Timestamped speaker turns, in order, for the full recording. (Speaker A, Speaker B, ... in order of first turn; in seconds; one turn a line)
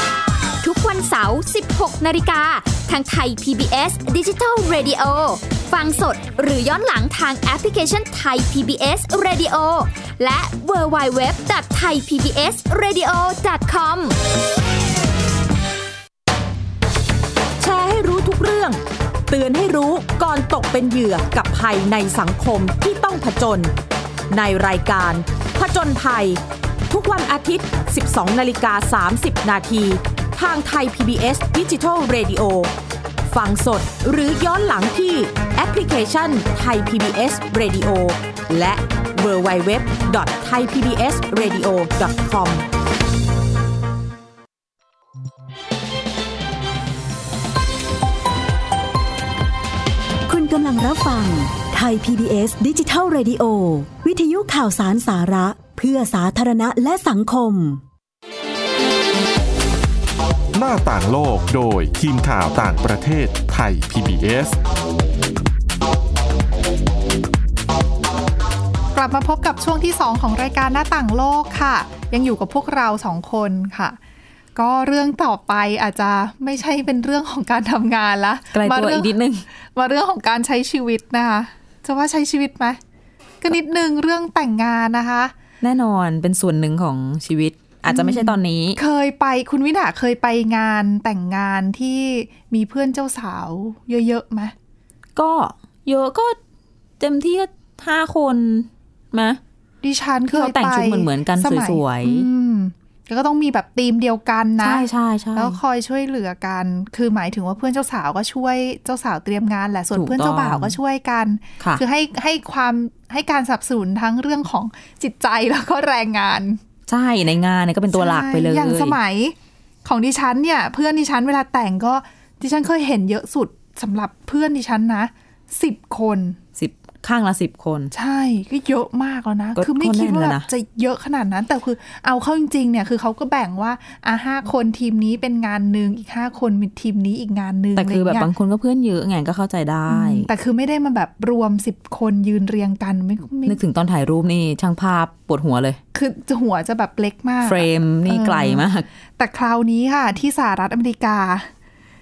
Speaker A: 0.6-14.2
Speaker B: 17.6-23.7
Speaker B: 24.3-32.7
Speaker B: 33.2-42.6
Speaker C: 50.3-57.8
Speaker D: 60.5-64.6
Speaker E: 68.9-74.0
Speaker E: 74.5-79.1
Speaker F: 78.5-79.5
Speaker E: 79.7-82.8
Speaker E: 83.4-85.3
Speaker F: 85.6-88.8
Speaker E: 87.9-94.5
Speaker F: 95.2-96.4
Speaker F: 97.0-99.4
Speaker E: 99.8-116.6
Speaker F: 100.3-102.3
Speaker F: 104.6-105.6
Speaker F: 109.9-110.8
Speaker F: 116.9-119.0
Speaker E: 117.9-126.4
Speaker F: 126.5-127.9
Speaker E: 127.9-138.3
Speaker F: 129.5-130.5
Speaker F: 137.8-140.3
Speaker E: 139.9-143.6
Speaker F: 143.4-145.8
Speaker E: 145.9-151.5
Speaker F: 147.4-148.9